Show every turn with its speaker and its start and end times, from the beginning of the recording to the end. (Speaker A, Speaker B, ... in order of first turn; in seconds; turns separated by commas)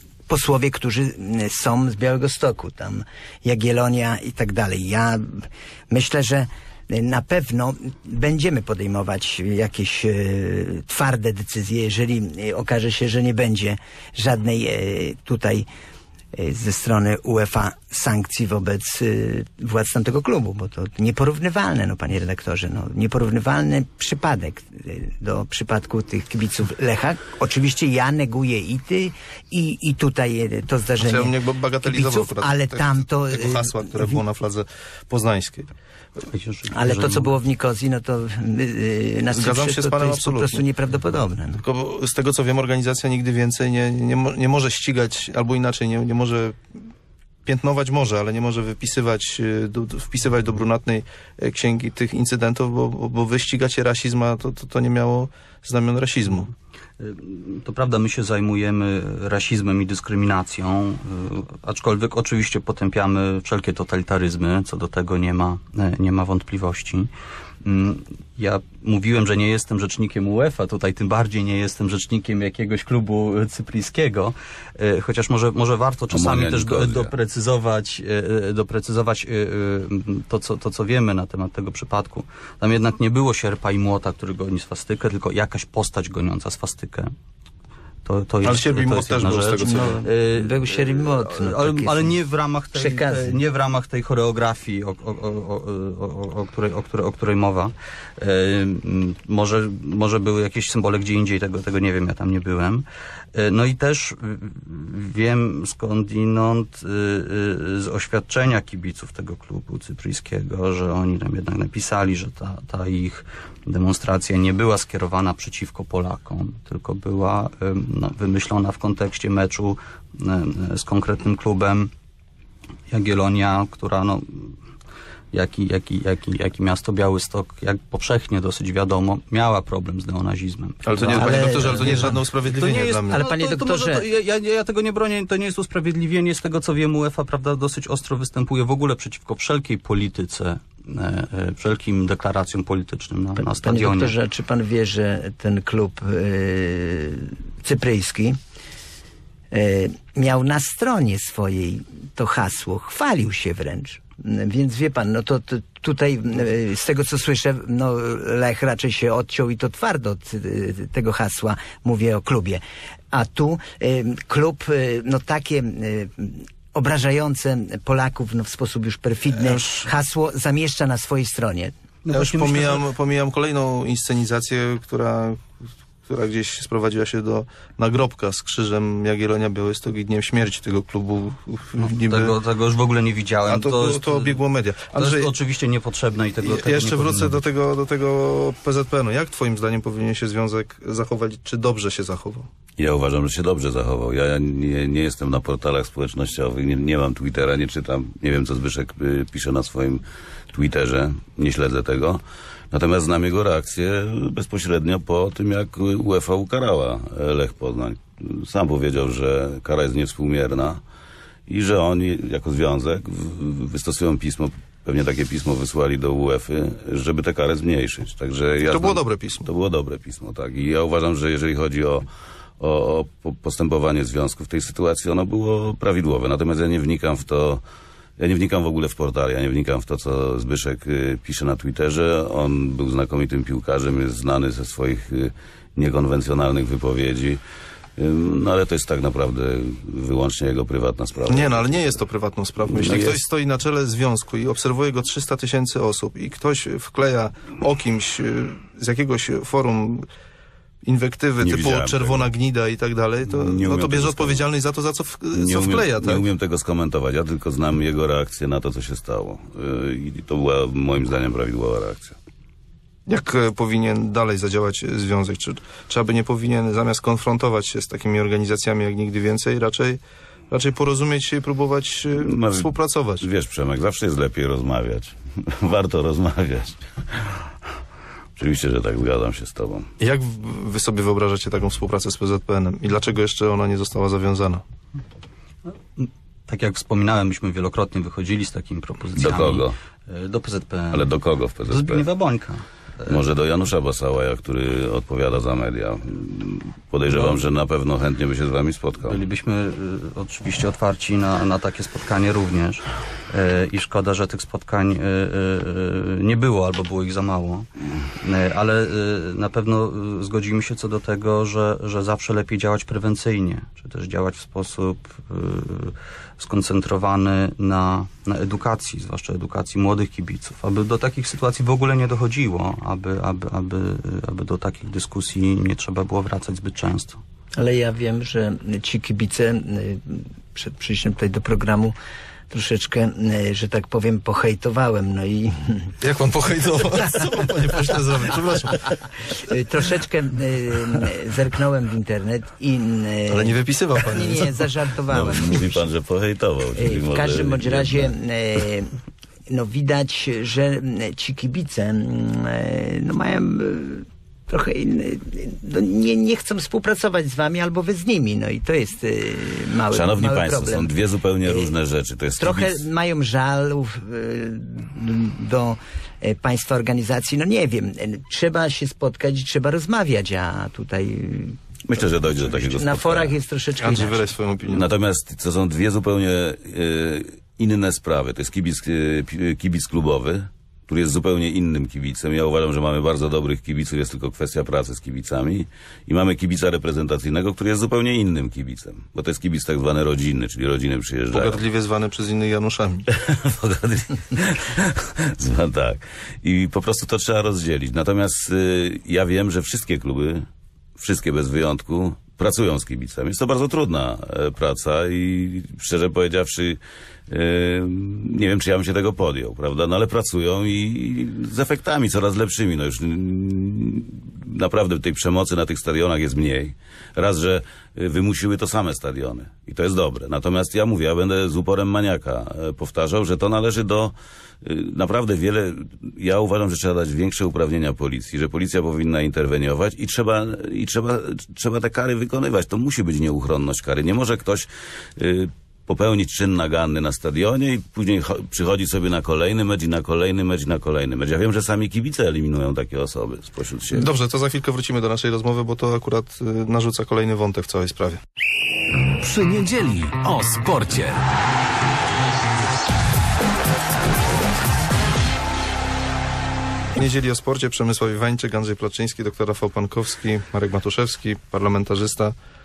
Speaker A: 0.3-15.7, Speaker A: 16.3-34.1, Speaker B: 31.0-35.7, Speaker C: 36.3-37.3, Speaker A: 36.7-41.6, Speaker B: 39.3-40.6, Speaker B: 41.6-46.6, Speaker B: 47.4-56.5, Speaker C: 57.0-67.1, Speaker C: 67.6-87.1, Speaker D: 76.1-77.1, Speaker C: 88.0-121.9, Speaker B: 88.4-90.0, Speaker A: 90.0-92.2, Speaker A: 92.7-93.4, Speaker C: 122.9-124.6, Speaker C: 125.3-144.1, Speaker B: 130.8-133.3, Speaker A: 131.1-132.2, Speaker A: 133.1-134.0, Speaker A: 143.4-148.4, Speaker A: 149.5-171.7, Speaker B: 169.3-169.8, Speaker C: 172.0-172.8, Speaker B: 172.1-175.5, Speaker B: 176.1-182.4, Speaker C: 181.8-184.4, Speaker B: 183.5-185.3, Speaker C: 184.9-187.4, Speaker B: 186.4-192.5, Speaker D: 192.8-210.8, Speaker D: 211.5-222.1, Speaker B: 218.7-219.5, Speaker D: 222.6-227.6, Speaker D: 228.2-237.4, Speaker D: 238.0-241.7, Speaker B: 241.3-250.1, Speaker D: 242.7-243.2, Speaker B: 250.8-256.2, Speaker D: 251.4-252.3, Speaker D: 253.3-254.4, Speaker D: 255.3-262.1, Speaker B: 263.1-273.2, Speaker D: 272.1-277.5, Speaker D: 278.4-279.9, Speaker B: 280.0-284.6, Speaker C: 286.0-291.1, Speaker D: 289.2-289.7, Speaker D: 290.9-292.1, Speaker C: 291.7-293.2, Speaker D: 293.1-299.2, Speaker C: 299.1-307.7, Speaker C: 308.2-327.2, Speaker A: 327.6-331.9, Speaker A: 332.5-335.9, Speaker B: 336.0-339.0, Speaker A: 339.3-345.9, Speaker B: 343.3-344.7, Speaker D: 345.1-348.1, Speaker A: 346.8-349.0, Speaker A: 349.5-360.9, Speaker D: 359.9-362.8, Speaker A: 361.4-361.7, Speaker A: 362.4-374.3, Speaker D: 371.8-373.3, Speaker B: 373.8-374.9, Speaker D: 374.7-391.6, Speaker B: 391.3-393.1, Speaker D: 393.1-400.4, Speaker D: 401.0-444.1, Speaker B: 443.9-448.2, Speaker E: 449.2-451.2, Speaker B: 456.9-462.4